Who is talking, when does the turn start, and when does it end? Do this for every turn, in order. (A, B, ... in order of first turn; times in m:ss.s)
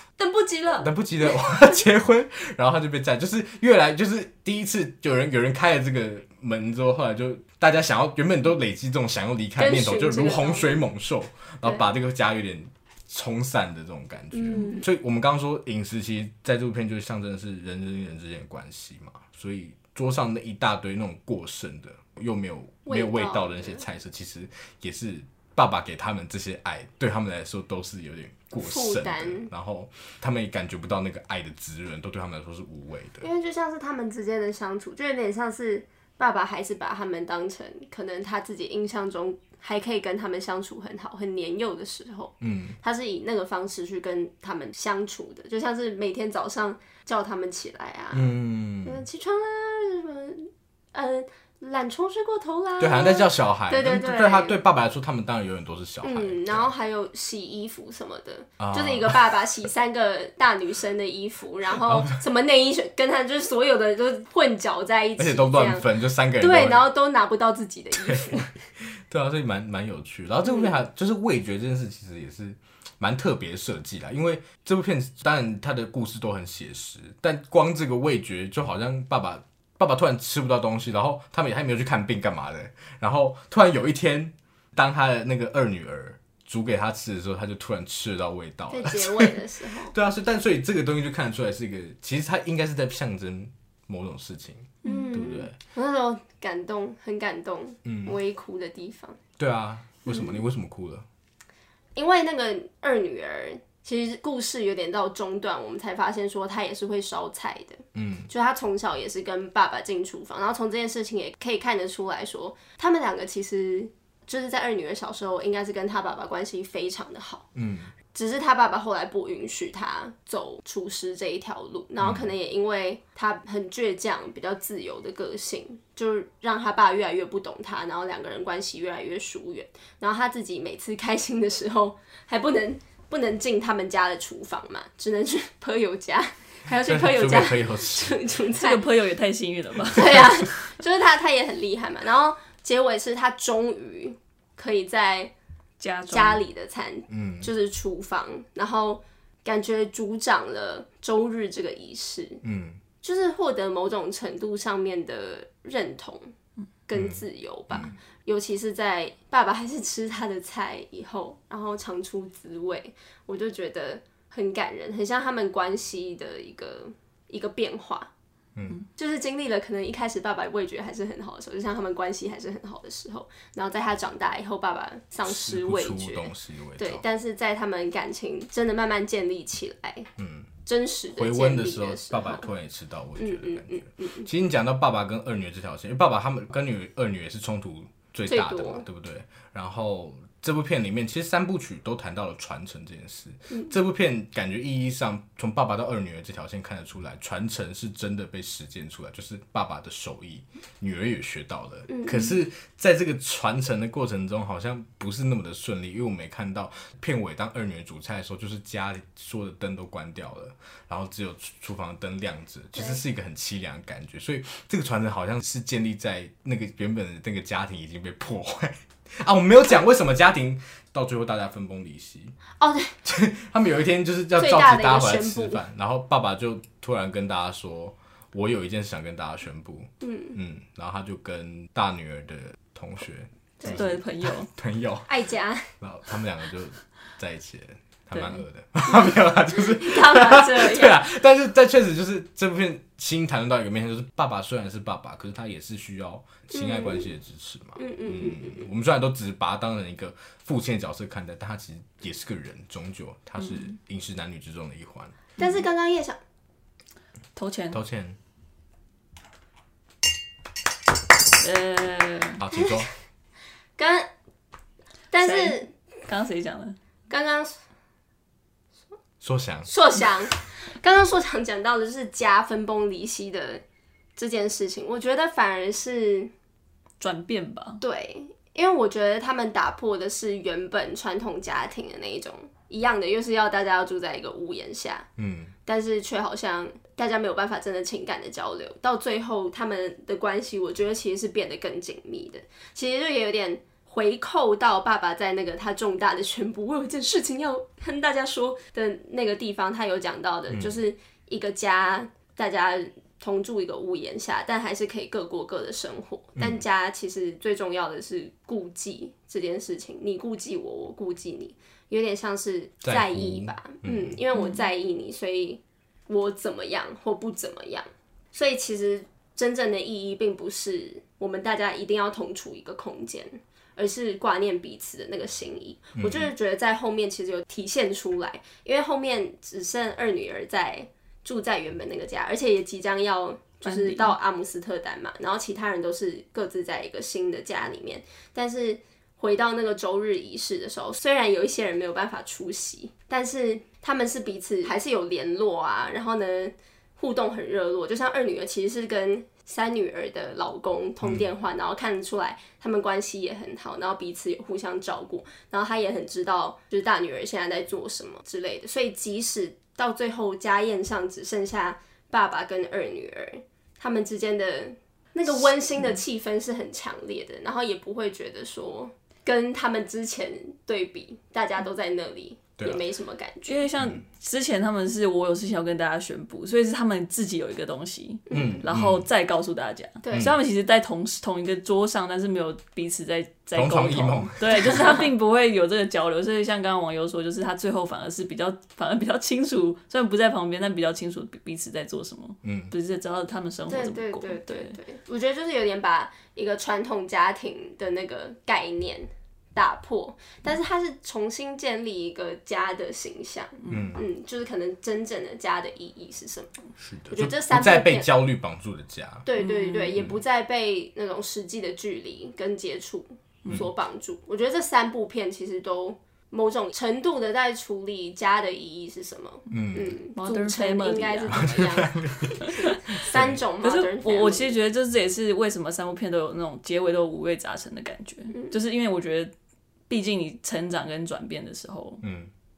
0:00.2-0:01.8 A
0:00.8-0:33.3 B
0:09.6-0:10.8 A
0:14.3-0:14.9 A
0:22.9-0:23.8 A
0:28.6-0:29.5 A
0:33.2-0:54.6 A
0:42.4-0:42.8 B
0:48.1-0:49.0 B
0:52.8-0:56.7 B
0:56.0-1:08.5 A
0:58.6-0:59.3 B
1:01.8-1:02.2 B
1:05.2-1:06.9 B
1:08.0-1:35.6 B
1:10.4-1:10.8 A
1:28.7-1:29.9 A
1:34.8-1:39.2 A
1:37.8-1:38.2 B
1:39.4-1:41.1 B
1:40.0-1:40.4 A
1:42.0-1:57.5 A
1:48.0-1:48.3 B
1:57.6-1:57.9 B
1:58.1-2:18.8 A
2:02.0-2:02.3 B
2:16.8-2:18.2 B
2:18.5-2:20.6 C
2:19.9-2:25.3 A
2:25.8-2:26.4 C
2:26.1-2:32.4 A
2:27.1-2:27.5 B
2:32.4-2:32.8 B
2:33.0-2:36.3 A
2:36.9-2:48.1 A
2:36.9-2:38.0 B
2:48.6-2:48.8 B
2:49.0-3:00.1 A
2:55.2-2:57.0 B
3:00.2-3:00.5 B
3:00.7-3:02.5 A
3:01.1-3:42.4 B
3:03.2-3:04.3 A
3:08.3-3:08.8 A
3:21.9-3:22.4 A
3:32.8-3:33.0 A
3:42.6-3:43.0 A
3:43.0-3:55.1 B
3:44.4-3:45.6 A
3:50.0-3:50.4 A
3:53.6-3:54.0 A
3:53.6-3:54.5 C
3:55.1-3:55.7 A
3:55.8-4:15.2 B
3:58.1-3:58.4 C
3:58.9-4:01.0 A
4:06.5-4:07.1 A
4:07.8-4:08.7 A
4:13.4-4:13.8 C
4:15.4-4:16.2 A
4:17.4-4:17.8 C
4:17.7-4:18.2 B
4:21.4-4:22.4 C
4:22.4-4:22.9 B
4:23.8-4:24.1 A
4:25.1-4:25.7 A
4:25.2-4:26.8 C
4:27.1-4:27.5 A
4:29.2-4:29.7 B
4:29.7-4:33.6 A
4:34.2-4:36.3 A
4:37.0-4:37.8 C
4:37.8-4:45.1 A
4:45.2-4:45.5 B
4:45.7-6:13.7 A
5:00.5-5:00.8 B
5:06.4-5:06.6 B
5:12.8-5:14.2 B
5:14.3-5:14.7 C
5:26.0-5:26.3 B
5:33.6-5:34.2 C
5:51.0-5:51.3 B
6:13.5-6:34.8 C
6:18.3-6:18.6 A
6:18.3-6:19.1 B
6:20.0-6:20.3 A
6:20.1-6:20.4 B
6:23.5-6:25.0 B
6:32.4-6:32.7 B
6:33.7-6:48.1 A
6:43.6-6:44.0 C
6:43.7-6:44.0 B
6:46.8-6:49.3 B
6:49.2-7:04.6 A
6:49.4-6:50.0 C
6:59.5-7:00.0 B
7:00.1-7:01.6 C
7:01.3-7:03.4 B
7:02.4-7:03.0 C
7:03.6-7:09.3 C
7:09.9-7:12.0 C
7:12.0-7:12.3 B